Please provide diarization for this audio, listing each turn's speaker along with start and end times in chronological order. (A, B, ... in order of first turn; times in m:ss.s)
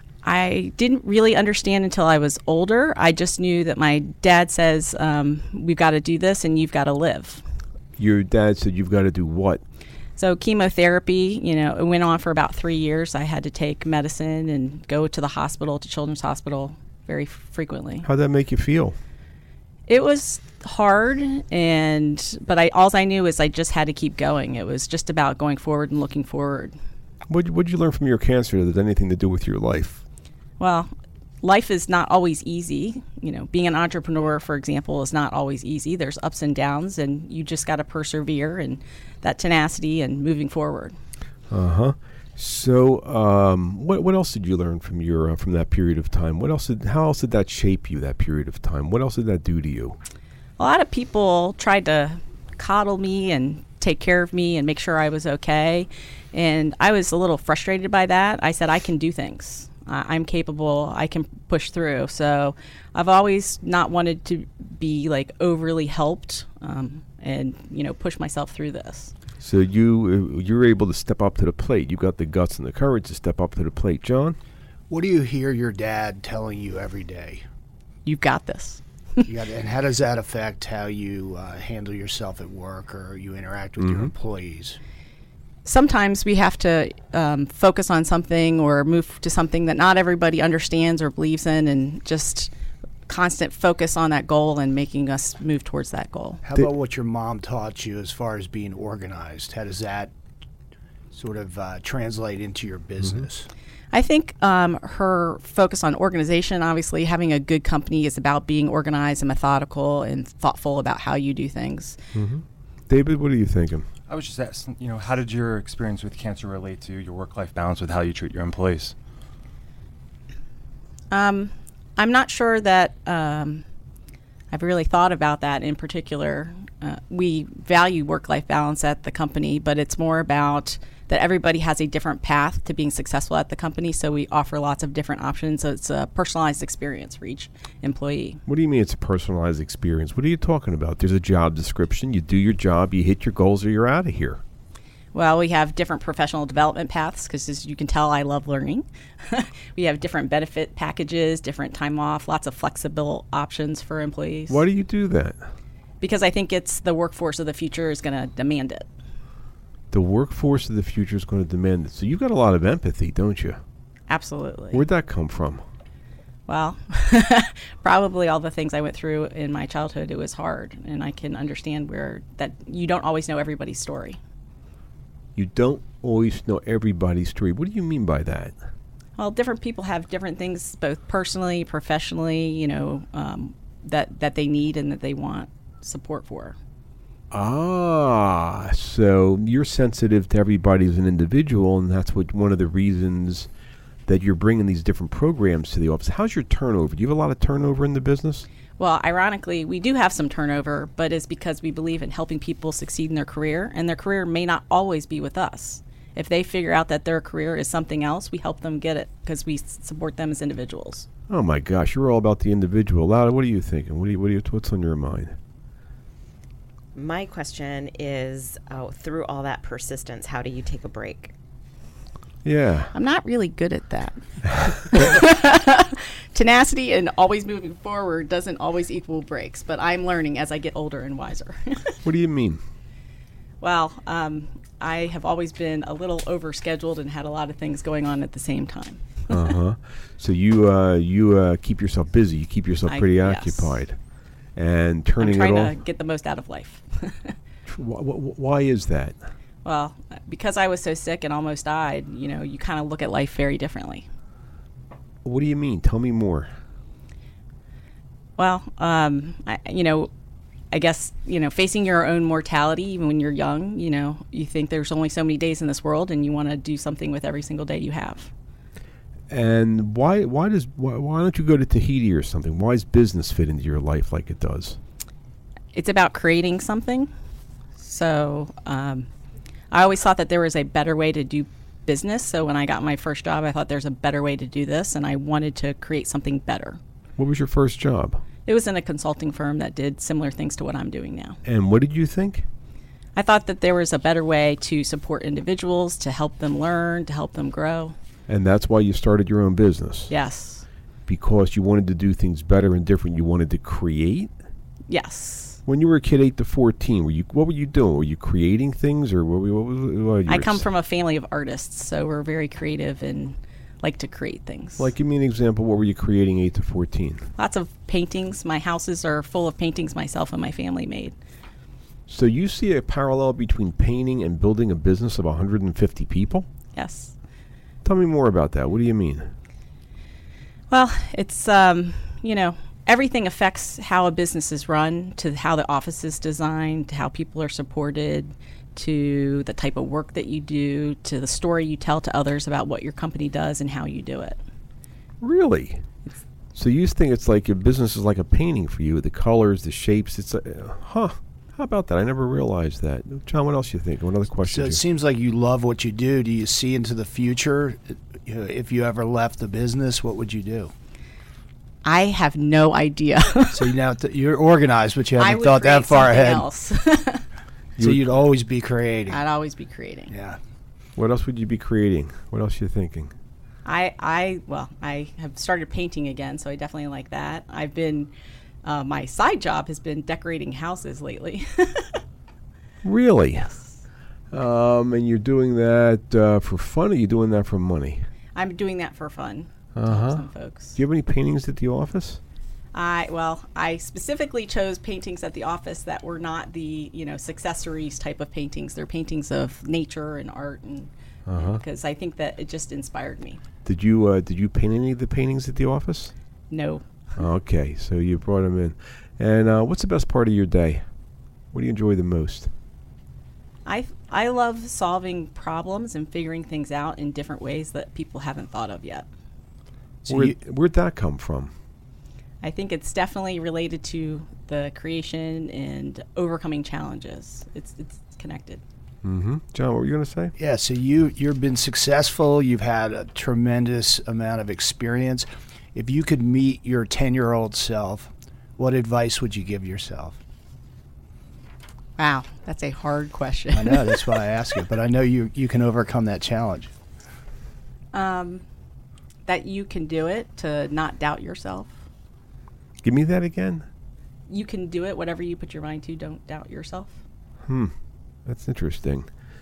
0:00.2-0:07.4 A
0:08.0-0:09.6 B
0:10.2-0:18.1 A
0:18.0-0:19.0 B
0:19.9-0:26.7 A
0:27.3-0:30.0 B
0:30.6-0:30.9 A
0:31.4-0:41.0 A
0:41.5-0:50.0 B
0:50.6-1:09.1 A
1:09.4-1:14.4 B
1:14.9-1:17.4 C
1:18.0-1:19.3 A
1:19.2-1:24.8 C
1:23.8-1:24.1 B
1:25.6-1:32.5 A
1:33.1-1:36.4 A
1:36.4-1:40.1 C
1:41.1-1:43.5 C
1:43.9-1:52.0 A
1:52.1-1:53.8 B
1:54.1-1:58.9 D
2:01.1-2:03.6 A
2:04.5-2:18.4 A
2:18.4-2:24.4 B
2:25.1-2:34.6 A
2:34.5-2:35.4 B
2:36.0-2:38.9 A
2:39.9-2:43.6 B
2:44.1-2:44.8 A
2:44.7-2:45.6 B
2:46.5-2:54.2 A
2:55.4-2:58.5 B
2:59.2-3:06.6 A
3:07.3-3:13.5 B
3:14.0-3:18.4 B
3:18.8-3:31.1 A
3:31.3-3:35.4 B
3:36.9-3:41.3 E
3:42.4-3:42.9 B
3:42.9-3:52.0 A
3:52.0-3:52.6 B
3:53.6-3:59.4 A
3:59.3-4:04.0 B
4:02.9-4:03.8 A
4:04.6-4:05.7 B
4:05.2-4:07.3 A
4:07.7-4:09.2 B
4:09.6-4:14.0 A
4:15.2-4:16.5 B
4:18.4-4:20.1 A
4:20.7-4:28.3 A
4:29.3-4:34.8 B
4:35.7-4:37.1 A
4:37.8-4:39.1 A
4:39.7-4:46.8 A
4:47.2-4:48.2 B
4:48.4-4:51.4 A
4:51.4-4:52.4 B
4:53.2-4:57.9 A
4:58.3-5:00.1 B
5:00.1-5:00.6 A
5:01.1-5:04.3 B
5:04.9-5:05.6 A
5:05.6-5:10.6 B
5:10.3-5:14.9 A
5:14.8-5:17.2 B
5:17.4-5:21.1 A
5:22.1-5:26.5 B
5:26.7-5:27.1 A
5:27.8-5:29.3 B
5:30.7-5:44.4 A
5:45.2-5:45.8 B
5:46.5-5:54.8 B
5:54.4-6:00.7 C
6:01.8-6:03.7 A
6:03.5-6:06.5 C
6:05.2-6:07.2 A
6:07.8-6:09.2 C
6:07.8-6:08.0 B
6:09.1-6:10.1 A
6:10.1-6:10.4 C
6:11.0-6:13.1 B
6:13.6-6:18.1 A
6:18.6-6:22.0 A
6:22.8-6:23.5 B
6:23.4-6:23.7 A
6:24.3-6:28.0 B
6:28.3-6:30.8 A
6:29.8-6:32.2 B
6:32.7-6:43.4 A
6:41.3-6:41.6 B
6:43.6-6:46.1 B
6:46.5-6:46.8 A
6:47.2-6:50.8 B
6:51.5-6:52.5 B
6:53.6-6:59.0 A
7:00.0-7:00.4 C
7:00.1-7:01.5 B
7:02.4-7:08.6 A
7:09.0-7:10.3 B
7:10.4-7:20.2 C
7:22.0-7:24.2 A
7:23.5-7:26.7 C
7:27.9-7:28.4 A
7:29.2-7:31.7 A
7:32.8-7:33.6 B
7:34.3-7:36.9 A
7:37.4-7:37.7 B
7:38.2-7:39.1 B